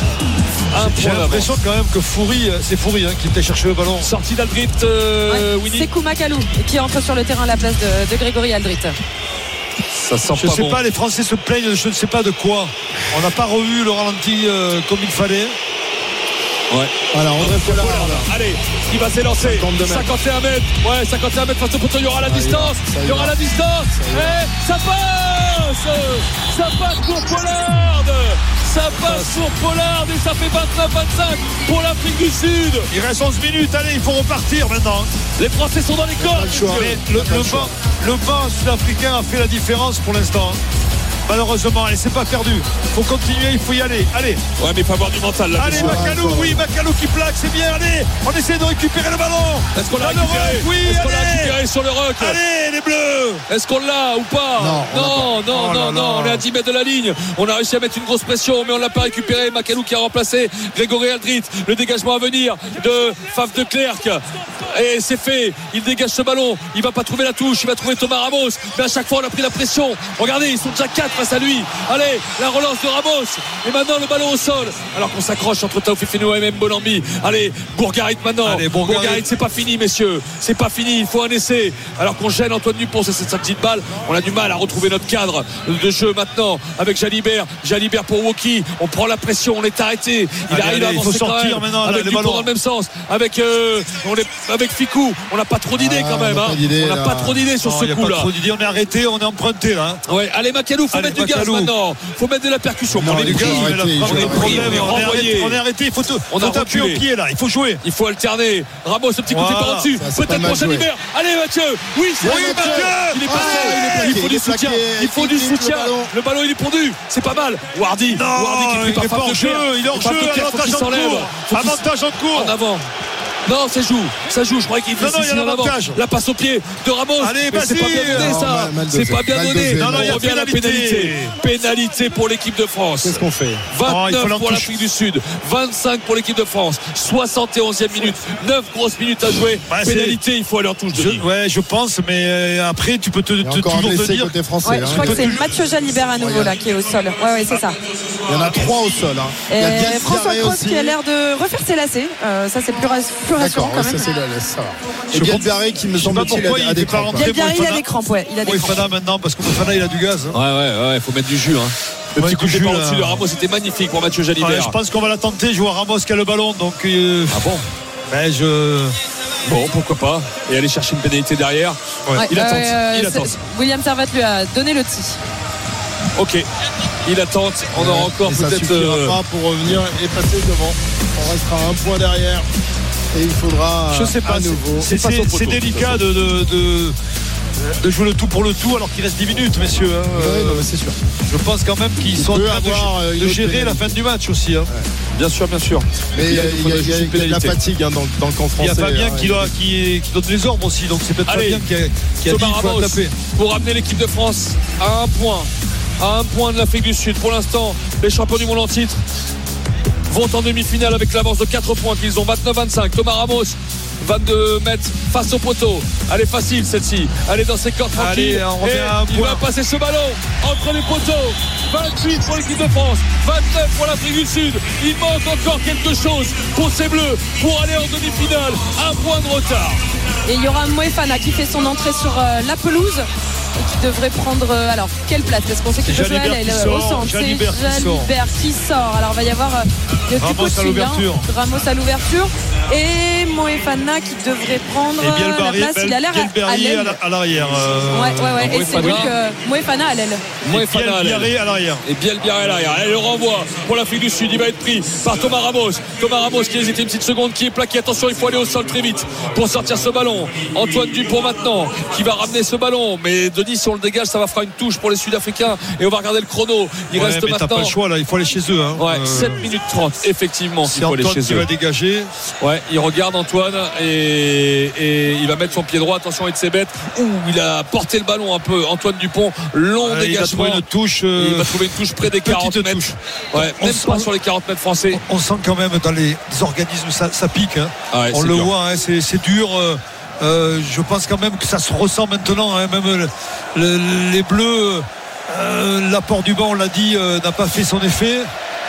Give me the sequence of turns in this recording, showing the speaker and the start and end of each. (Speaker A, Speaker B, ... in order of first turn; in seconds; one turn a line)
Speaker A: 0.7-1.5
Speaker B: 0.7-4.1
Speaker A: 4.0-5.9
Speaker C: 5.3-9.0
Speaker A: 9.9-10.8
Speaker B: 10.4-15.6
Speaker A: 16.7-32.9
Speaker D: 17.1-18.3
Speaker D: 19.4-20.1
Speaker D: 22.2-23.4
Speaker D: 23.9-24.4
Speaker B: 28.9-29.4
Speaker B: 32.9-35.1
Speaker A: 35.4-37.0
Speaker D: 36.2-37.7
Speaker B: 36.7-40.6
Speaker B: 41.3-44.4
Speaker A: 44.6-46.1
Speaker B: 45.6-51.5
Speaker D: 45.7-46.6
Speaker A: 49.8-52.4
Speaker B: 52.2-53.4
Speaker A: 53.5-98.3
Speaker D: 54.6-55.4
Speaker B: 55.5-56.4
Speaker B: 78.4-79.2
Speaker B: 90.5-92.5
Speaker D: 95.8-97.4
Speaker B: 97.6-100.0
Speaker A: 100.1-105.6
Speaker B: 100.9-101.7
Speaker D: 102.9-105.1
Speaker B: 103.0-107.8
Speaker A: 106.3-107.0
Speaker A: 107.8-122.9
Speaker B: 109.3-109.9
Speaker D: 109.9-110.9
Speaker D: 112.2-116.1
Speaker B: 112.2-114.0
Speaker B: 118.1-122.6
Speaker A: 123.5-141.2
Speaker B: 125.0-126.0
Speaker B: 127.2-128.4
Speaker D: 128.1-130.2
Speaker B: 129.8-131.3
Speaker D: 133.0-133.7
Speaker B: 133.8-134.7
Speaker B: 139.7-140.2
Speaker B: 140.9-145.6
Speaker D: 143.4-145.4
Speaker C: 144.6-147.8
Speaker D: 146.1-146.6
Speaker D: 148.3-151.0
Speaker C: 149.5-154.1
Speaker D: 153.3-157.3
Speaker B: 155.1-157.8
Speaker C: 157.2-158.9
Speaker B: 158.4-160.4
Speaker A: 160.3-164.8
Speaker B: 162.2-163.2
Speaker B: 164.4-167.4
Speaker A: 167.3-167.7
Speaker B: 168.1-168.9
Speaker A: 169.4-171.8
Speaker C: 172.2-175.2
Speaker A: 172.3-173.3
Speaker A: 176.2-176.5
Speaker A: 177.1-179.2
Speaker D: 177.7-182.5
Speaker D: 183.1-184.9
Speaker B: 183.9-187.0
Speaker A: 184.8-186.0
Speaker B: 187.6-190.7
Speaker D: 190.1-191.0
Speaker B: 191.2-194.7
Speaker D: 192.1-194.0
Speaker A: 195.2-197.6
Speaker D: 196.1-199.5
Speaker B: 198.6-203.1
Speaker A: 201.3-201.7
Speaker A: 202.2-209.0
Speaker A: 210.1-229.8
Speaker B: 217.9-219.4
Speaker C: 230.3-247.0
Speaker B: 235.8-238.1
Speaker B: 240.2-241.3
Speaker B: 245.0-249.0
Speaker C: 247.9-250.2
Speaker A: 248.4-249.1
Speaker A: 250.4-267.8
Speaker B: 250.5-251.8
Speaker B: 267.0-269.4
Speaker A: 268.8-271.5
Speaker B: 270.6-272.1
Speaker A: 272.4-285.0
Speaker B: 279.8-284.1
Speaker B: 284.9-298.3
Speaker A: 287.9-288.5